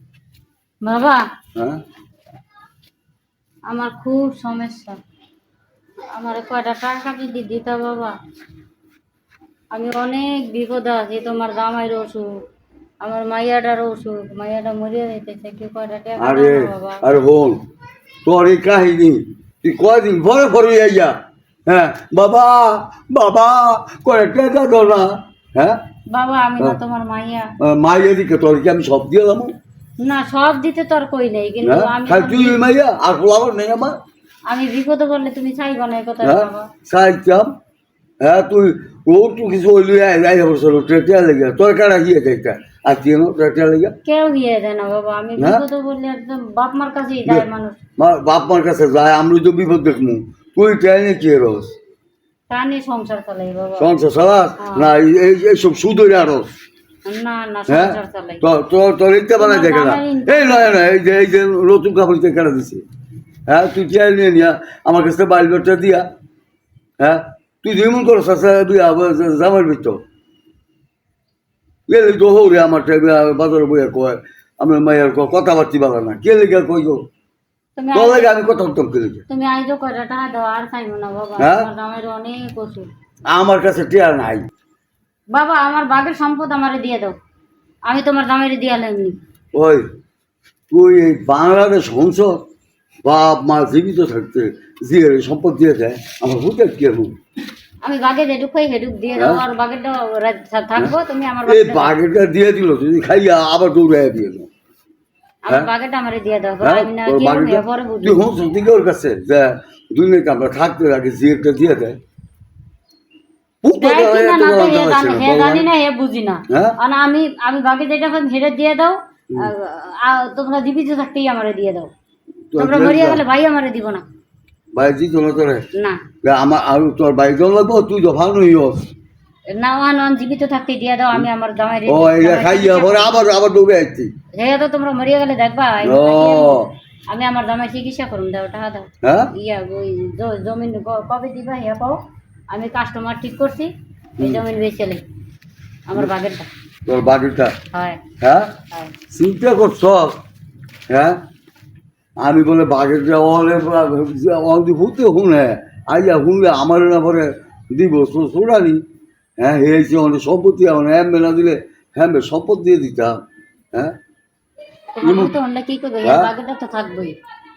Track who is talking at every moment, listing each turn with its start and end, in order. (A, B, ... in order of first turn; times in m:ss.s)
0:00.8-0:01.2 A
0:03.7-0:05.0 A
0:06.1-0:08.2 A
0:09.7-0:12.4 A
0:13.0-0:17.0 A
0:16.2-0:17.6 B
0:18.2-0:21.1 B
0:21.7-0:25.8 B
0:26.1-0:27.5 A
0:27.6-0:29.5 B
0:30.0-0:32.6 A
0:31.6-0:34.0 B
0:34.5-0:36.7 A
0:36.2-0:37.5 B
0:38.2-0:43.9 B
0:44.0-0:47.8 A
0:45.4-0:45.6 B
0:48.0-0:51.7 B
0:52.5-0:53.9 A
0:53.8-0:56.5 B
0:54.6-0:54.9 A
0:57.0-0:58.4 A
0:57.7-1:02.8 B
0:59.4-1:00.8 A
1:03.5-1:06.1 B
1:07.0-1:10.0 B
1:11.9-1:17.0 B
1:17.8-1:18.3 A
1:17.9-1:19.2 B
1:19.3-1:22.9 A
1:21.4-1:21.7 B
1:23.3-1:24.4 B
1:25.3-1:27.1 A
1:27.9-1:29.2 A
1:29.5-1:29.8 B
1:30.7-1:32.4 B
1:33.0-1:37.1 B
1:37.8-1:42.0 A
1:39.2-1:39.4 B
1:41.4-1:44.5 B
1:45.4-1:48.2 A
1:46.6-1:52.0 B
1:53.6-1:55.7 B
1:53.7-2:01.9 A
1:56.5-1:56.7 B
2:02.5-2:03.2 B
2:02.6-2:04.0 A
2:04.7-2:05.6 B
2:05.7-2:06.0 A
2:06.2-2:08.8 B
2:09.5-2:13.2 A
2:11.9-2:14.1 B
2:14.4-2:25.0 A
2:15.8-2:16.7 B
2:19.0-2:19.3 B
2:25.9-2:26.5 A
2:26.9-2:27.6 B
2:27.7-2:28.0 A
2:28.2-2:28.5 B
2:29.1-2:30.2 B
2:30.9-2:31.2 B
2:32.2-2:38.8 B
2:39.4-2:43.2 B
2:44.9-2:47.1 A
2:45.0-2:45.3 B
2:46.0-2:46.3 B